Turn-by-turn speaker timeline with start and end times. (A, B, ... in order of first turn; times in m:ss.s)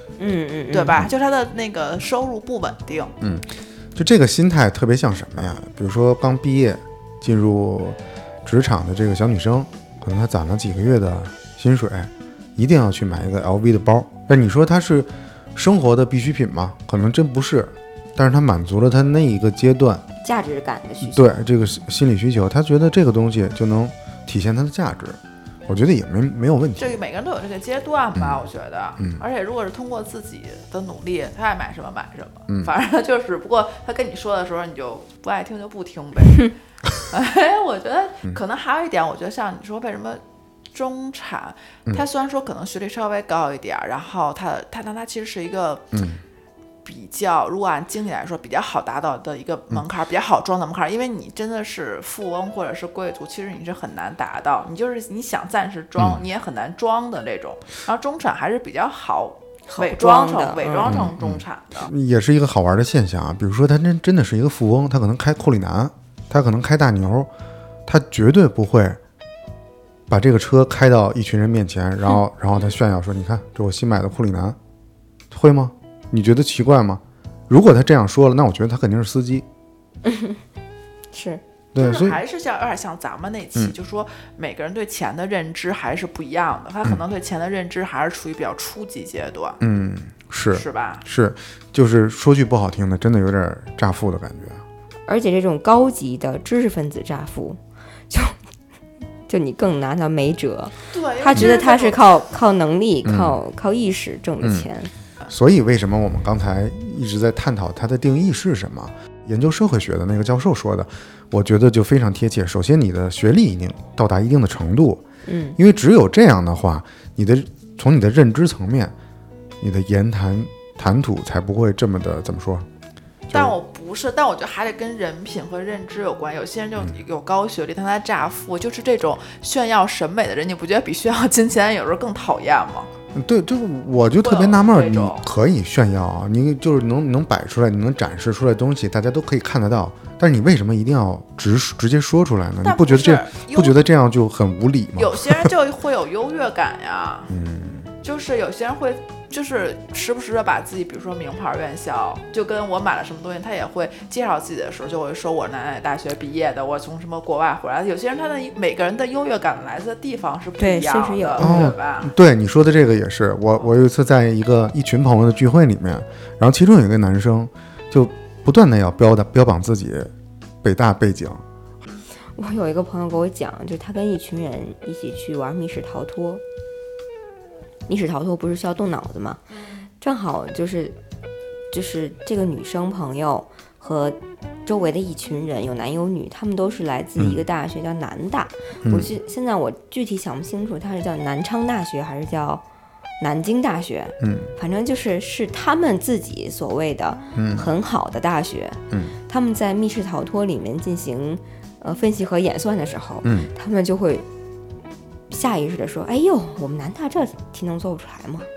0:00.2-0:01.0 A
0:00.7-0:03.1 B
0:03.2-0:20.0 C
0:20.2-0:21.4 A
0:21.0-0:27.0 C
0:26.8-0:45.9 B
0:28.2-0:28.4 C
0:45.9-0:46.2 C
0:46.8-1:01.9 B
0:56.0-0:56.2 C
0:59.7-1:01.1 A
1:00.8-1:07.3 C
1:07.8-1:09.0 C
1:10.1-1:14.6 C
1:15.3-1:19.4 C
1:20.0-1:20.4 A
1:21.1-1:21.4 A
1:21.7-1:22.2 C
1:21.8-1:29.6 B
1:29.6-1:34.6 C
1:30.5-1:31.0 B
1:35.1-1:37.6 A
1:38.1-1:38.4 A
1:39.3-1:44.9 A
1:40.9-1:42.2 B
1:43.0-1:43.4 C
1:44.4-1:44.7 C
1:45.3-1:55.0 C
1:55.2-1:55.6 A
1:55.6-1:58.9 C
1:59.6-2:02.7 C
2:03.3-2:12.9 B
2:13.1-2:25.5 C
2:14.2-2:15.2 B
2:22.6-2:23.8 B
2:25.0-2:27.4 B
2:27.3-2:27.9 C
2:28.0-2:42.1 B
2:40.6-2:41.7 A
2:41.4-2:50.1 C
2:50.6-2:51.4 C
2:52.4-2:56.4 A
2:57.9-2:59.4 A
2:59.6-2:59.8 B
3:00.0-3:01.0 A
3:01.7-3:12.6 A
3:07.2-3:07.4 C
3:08.8-3:09.1 C
3:13.2-3:24.2 A
3:14.2-3:14.5 C
3:17.3-3:17.7 C
3:23.2-3:23.5 C
3:25.3-3:28.5 A